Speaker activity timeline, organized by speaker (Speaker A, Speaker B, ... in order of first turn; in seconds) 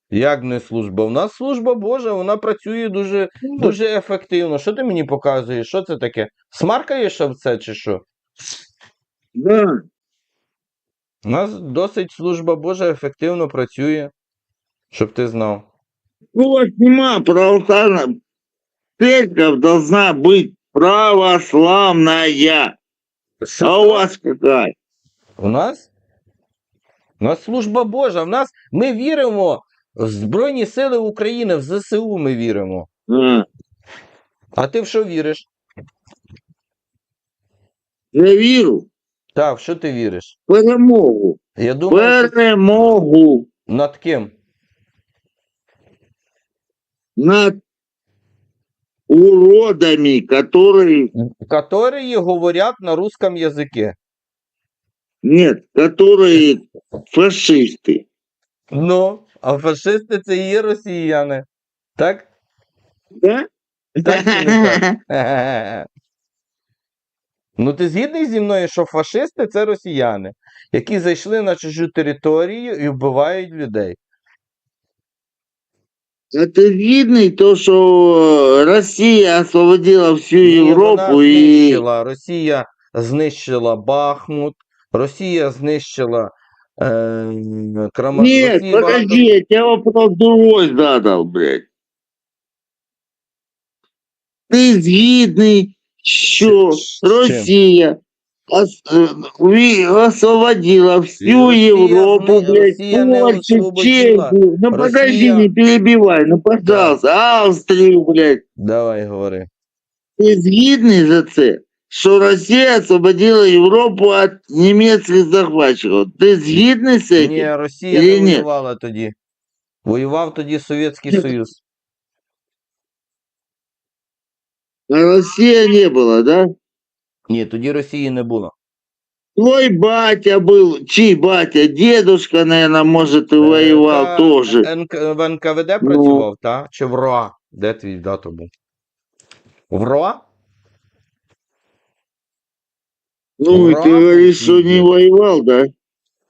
Speaker A: 0.1-8.1, 11.2-14.1, 14.9-15.7, 23.4-24.0, 25.4-25.9, 27.2-32.9, 34.6-35.5, 39.4-40.4, 41.6-42.3, 43.7-44.3, 51.1-54.0, 58.7-61.5, 62.0-62.3, 64.0-65.9, 67.6-74.0, 80.4-89.4, 96.4-97.5, 101.2-105.5, 106.7-107.0, 108.6-109.5, 117.2-119.1, 119.8-121.6, 127.3-128.6, 133.4-138.5, 139.7-140.2, 143.5-144.9
Speaker B: 9.3-9.7, 16.4-18.1, 19.0-22.8, 23.6-24.7, 33.1-33.5, 38.1-38.9, 40.5-41.4, 41.9-43.5, 47.2-47.6, 49.1-51.1, 55.2-58.0, 64.0-64.9, 76.3-81.8, 88.2-91.7, 94.5-98.0, 98.5-108.4, 110.2-118.4, 124.9-126.5, 129.4-134.7, 135.8-136.3, 143.4-145.7